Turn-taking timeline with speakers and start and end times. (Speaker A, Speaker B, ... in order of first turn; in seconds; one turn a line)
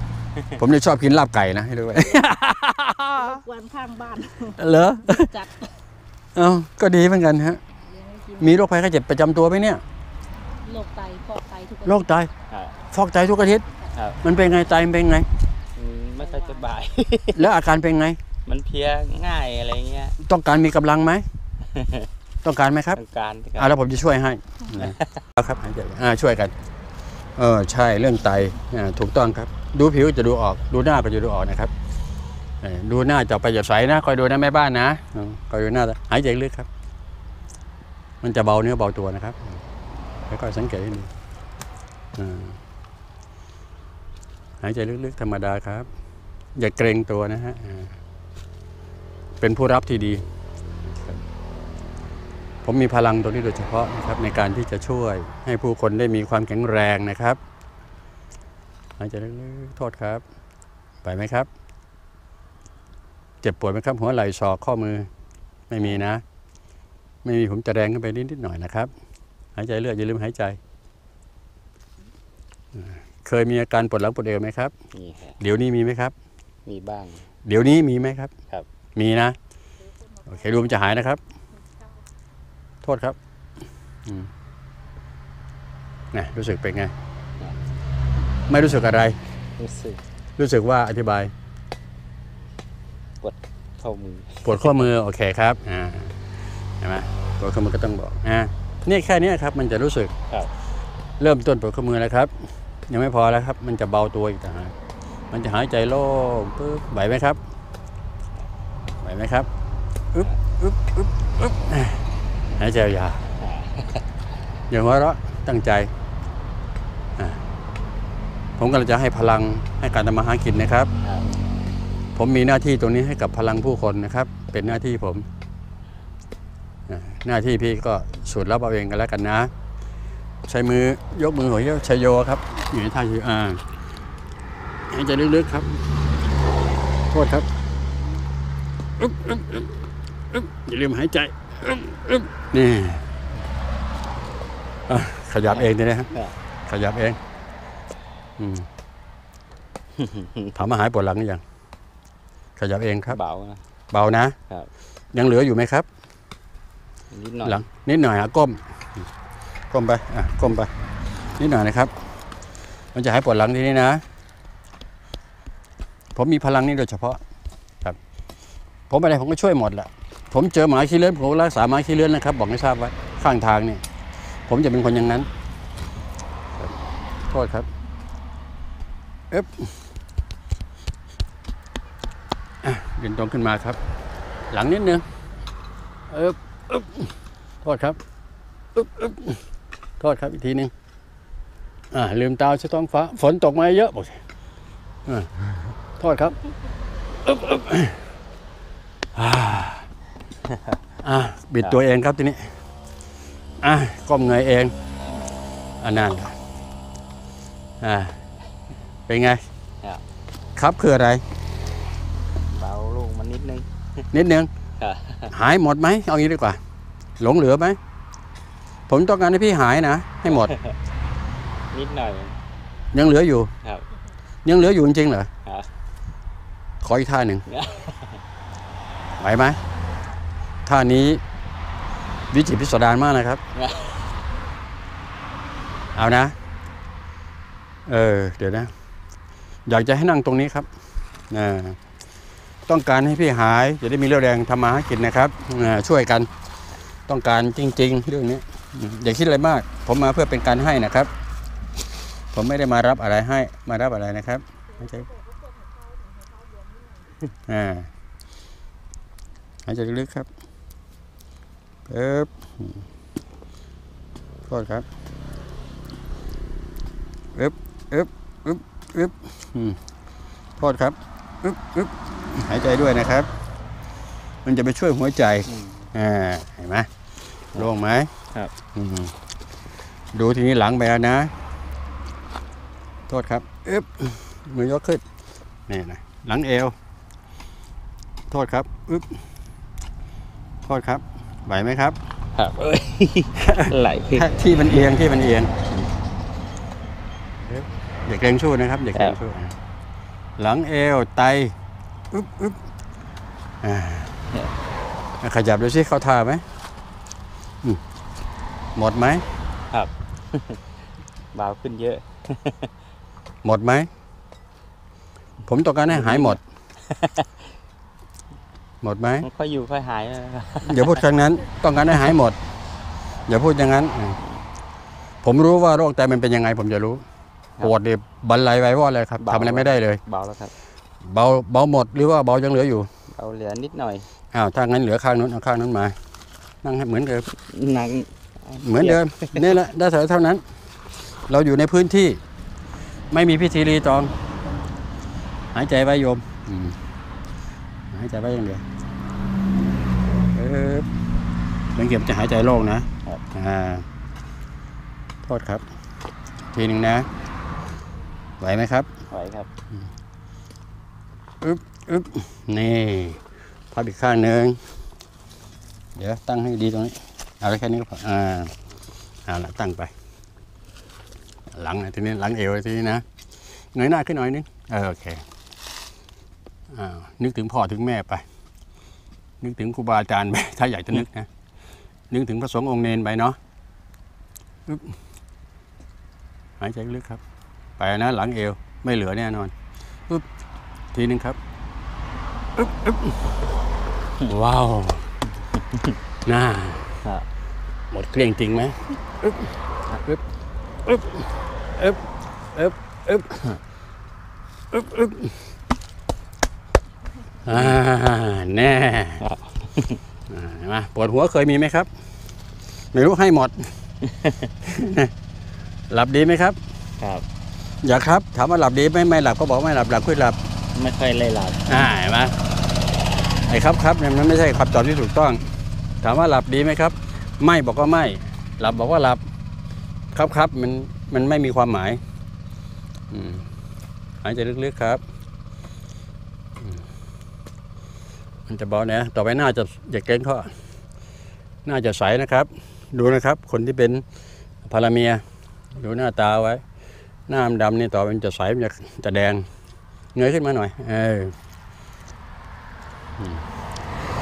Speaker A: 0.6-3.4
Speaker B: 3.2-5.7
Speaker A: 4.4-5.4
Speaker A: 6.3-7.6
Speaker B: 7.8-8.6
Speaker A: 8.4-9.8
Speaker B: 10.6-12.0
Speaker A: 11.8-12.3
Speaker C: 12.5-12.8
Speaker A: 12.9-13.7
Speaker C: 13.9-14.2
Speaker A: 14.2-15.3
Speaker C: 15.8-17.4
Speaker A: 17.3-18.2
Speaker C: 18.5-20.2
Speaker A: 20.2-21.2
Speaker C: 21.7-22.1
Speaker A: 22.4-23.0
Speaker C: 22.9-23.8
Speaker A: 23.6-26.5
Speaker C: 24.8-25.1
Speaker A: 27.4-31.7
Speaker A: 32.6-36.7
Speaker A: 38.2-39.4
Speaker A: 40.3-41.1
Speaker A: 42.1-42.6
Speaker A: 44.6-45.9
Speaker A: 46.5-48.0
Speaker A: 49.4-50.2
Speaker A: 52.6-57.4
Speaker A: 59.0-60.2
Speaker A: 61.0-61.5
Speaker A: 63.4-65.1
Speaker A: 65.7-66.2
Speaker A: 67.2-68.9
Speaker A: 69.5-70.6
Speaker A: 72.8-74.7
Speaker C: 74.9-75.4
Speaker A: 75.4-76.1
Speaker C: 76.7-77.2
Speaker A: 77.5-78.3
Speaker A: 79.0-79.4
Speaker B: 80.0-80.5
Speaker A: 80.3-81.2
Speaker A: 82.8-83.2
Speaker A: 86.1-86.9
Speaker A: 88.5-89.2
Speaker C: 89.6-90.0
Speaker A: 90.4-91.3
Speaker C: 93.2-94.8
Speaker A: 94.5-96.2
Speaker A: 96.8-100.1
Speaker A: 101.2-102.3
Speaker A: 102.9-104.7
Speaker A: 105.3-107.4
Speaker A: 109.0-109.5
Speaker A: 110.1-112.0
Speaker A: 112.6-113.2
Speaker C: 113.4-114.0
Speaker A: 114.7-115.9
Speaker A: 118.6-120.9
Speaker C: 121.0-121.3
Speaker A: 122.2-125.3
Speaker A: 126.9-129.5
Speaker A: 130.4-133.6
Speaker A: 134.9-135.9
Speaker A: 137.1-137.5
Speaker A: 139.0-143.1
Speaker A: 144.9-146.1
Speaker C: 145.5-146.3
Speaker A: 146.7-147.2
Speaker A: 148.4-148.7
Speaker C: 150.0-150.6
Speaker A: 150.6-151.4
Speaker A: 152.6-153.2
Speaker C: 153.1-153.6
Speaker A: 153.9-154.4
Speaker A: 155.1-155.9
Speaker C: 157.1-157.6
Speaker A: 157.4-158.6
Speaker A: 159.7-160.7
Speaker A: 161.4-161.9
Speaker A: 162.9-164.0
Speaker A: 166.2-167.2
Speaker A: 168.9-173.8
Speaker A: 174.5-175.3
Speaker A: 177.3-177.7
Speaker A: 179.3-179.7
Speaker A: 182.6-183.8
Speaker A: 184.5-185.0
Speaker A: 186.1-187.1
Speaker A: 187.6-188.0
Speaker A: 188.8-189.4
Speaker A: 190.0-190.7
Speaker A: 191.9-194.2
Speaker A: 195.1-196.4
Speaker A: 197.2-198.0
Speaker A: 199.2-199.9
Speaker C: 200.5-200.8
Speaker A: 201.0-202.6
Speaker A: 203.6-204.7
Speaker A: 205.8-206.4
Speaker A: 207.8-208.2
Speaker A: 209.1-209.4
Speaker A: 210.6-211.2
Speaker C: 212.5-213.7
Speaker A: 214.1-214.5
Speaker C: 214.8-215.3
Speaker A: 215.3-216.6
Speaker A: 217.2-217.8
Speaker A: 218.9-220.5
Speaker C: 220.3-220.8
Speaker C: 221.7-222.4
Speaker A: 222.9-223.5
Speaker A: 224.4-225.3
Speaker A: 226.8-227.5
Speaker C: 227.5-228.2
Speaker A: 229.2-229.6
Speaker A: 230.7-231.2
Speaker A: 232.3-233.4
Speaker C: 233.6-233.9
Speaker A: 235.9-236.4
Speaker A: 237.9-238.7
Speaker A: 239.7-240.7
Speaker A: 241.3-241.8
Speaker A: 242.7-246.3
Speaker A: 247.1-251.1
Speaker A: 252.3-255.1
Speaker B: 254.9-257.1
Speaker A: 257.5-257.9
Speaker A: 259.7-260.3
Speaker A: 261.9-262.8
Speaker A: 264.5-264.9
Speaker A: 267.3-269.8
Speaker A: 270.6-273.3
Speaker A: 274.4-276.9
Speaker C: 275.5-275.9
Speaker A: 277.6-278.1
Speaker A: 278.8-279.1
Speaker A: 280.1-281.3
Speaker A: 283.1-285.0
Speaker A: 285.7-286.8
Speaker A: 288.3-289.2
Speaker A: 290.7-292.0
Speaker C: 292.4-294.4
Speaker A: 293.4-295.9
Speaker A: 297.4-299.6
Speaker A: 300.4-301.6
Speaker A: 302.1-302.6
Speaker A: 303.6-304.2
Speaker A: 305.2-306.4
Speaker A: 308.8-309.2
Speaker C: 309.7-310.6
Speaker C: 311.3-312.7
Speaker A: 313.4-313.9
Speaker A: 315.5-316.4
Speaker C: 315.9-317.3
Speaker A: 318.8-319.3
Speaker C: 319.2-321.0
Speaker A: 320.6-322.4
Speaker A: 323.3-324.2
Speaker A: 325.2-327.0
Speaker A: 327.6-330.0
Speaker C: 329.2-330.5
Speaker A: 331.0-332.9
Speaker C: 333.2-334.1
Speaker A: 334.3-336.0
Speaker A: 336.6-337.3
Speaker C: 337.4-339.4
Speaker A: 338.6-340.4
Speaker A: 341.3-342.2
Speaker A: 343.1-344.1
Speaker A: 345.5-346.8
Speaker A: 347.9-348.6
Speaker A: 350.3-350.9
Speaker A: 351.8-353.8
Speaker A: 355.2-355.6
Speaker A: 356.5-357.1
Speaker A: 358.4-358.9
Speaker C: 359.1-359.5
Speaker A: 361.4-364.6
Speaker A: 366.0-368.5
Speaker A: 369.3-369.9
Speaker A: 371.5-373.0
Speaker A: 373.7-375.2
Speaker A: 376.7-378.2
Speaker A: 379.4-381.3
Speaker A: 382.1-383.4
Speaker A: 384.7-385.0
Speaker A: 386.6-387.2
Speaker A: 387.8-389.5
Speaker A: 390.9-391.4
Speaker A: 392.6-393.2
Speaker A: 394.3-395.1
Speaker A: 396.2-396.9
Speaker A: 397.9-400.2
Speaker A: 400.9-401.3
Speaker A: 401.8-402.0
Speaker A: 402.6-403.5
Speaker A: 404.7-405.4
Speaker A: 407.4-409.2
Speaker C: 407.5-407.8
Speaker C: 409.2-410.0
Speaker A: 410.3-411.9
Speaker A: 412.9-413.7
Speaker C: 414.1-414.5
Speaker A: 414.6-415.1
Speaker A: 415.9-416.6
Speaker A: 417.8-420.4
Speaker C: 420.7-421.9
Speaker A: 421.7-422.4
Speaker A: 423.5-425.4
Speaker A: 426.0-429.2
Speaker A: 430.1-432.0
Speaker A: 433.1-433.5
Speaker A: 434.2-435.0
Speaker A: 438.5-440.5
Speaker A: 441.6-444.0
Speaker A: 444.6-446.6
Speaker A: 447.3-449.5
Speaker A: 450.1-451.3
Speaker A: 453.2-453.4